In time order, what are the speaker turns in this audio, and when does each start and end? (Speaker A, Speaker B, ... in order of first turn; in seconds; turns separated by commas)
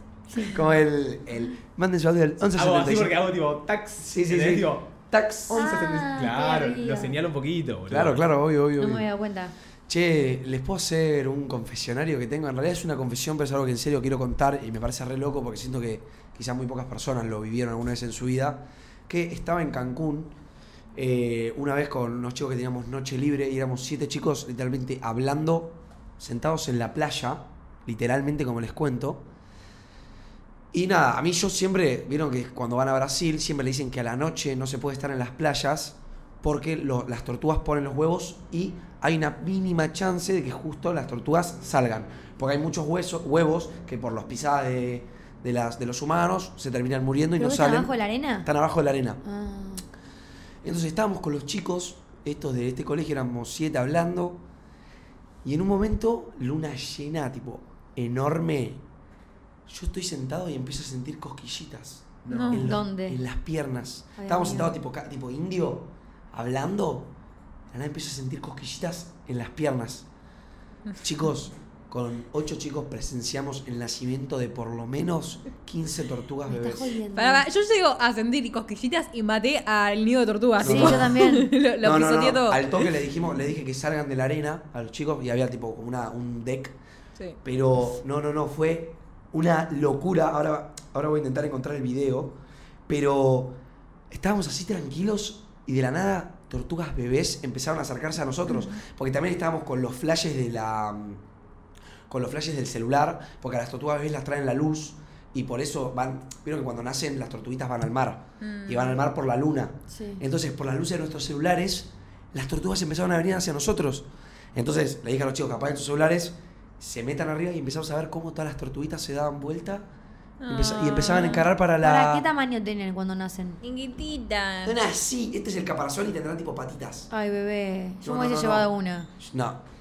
Speaker A: 0.4-3.2, Speaker B: 2.5-4.9, Speaker A: 4.0-5.7, Speaker B: 5.5-8.2, Speaker C: 5.5-7.1, Speaker A: 7.9-9.1, Speaker C: 8.8-9.5, Speaker A: 9.9-20.3, Speaker A: 20.9-29.2, Speaker A: 30.7-49.2, Speaker C: 47.4-48.5, Speaker C: 49.2-49.8, Speaker A: 50.6-54.4, Speaker A: 55.4-58.8, Speaker A: 59.7-67.1, Speaker B: 62.2-62.6, Speaker D: 62.3-62.7, Speaker C: 62.5-63.2, Speaker C: 64.2-64.7, Speaker A: 67.7-70.1, Speaker A: 71.0-77.0, Speaker C: 76.5-77.4, Speaker D: 77.1-82.7, Speaker C: 80.6-81.5, Speaker A: 80.6-86.8, Speaker A: 87.4-93.5, Speaker A: 94.1-101.2, Speaker D: 98.5-98.7, Speaker A: 102.1-119.8, Speaker D: 108.4-109.0, Speaker C: 109.9-110.2, Speaker D: 120.4-121.4, Speaker A: 120.5-122.3, Speaker C: 121.0-123.6, Speaker D: 123.6-124.8, Speaker A: 124.6-127.1, Speaker C: 127.1-129.1, Speaker A: 128.0-128.7, Speaker A: 129.2-129.6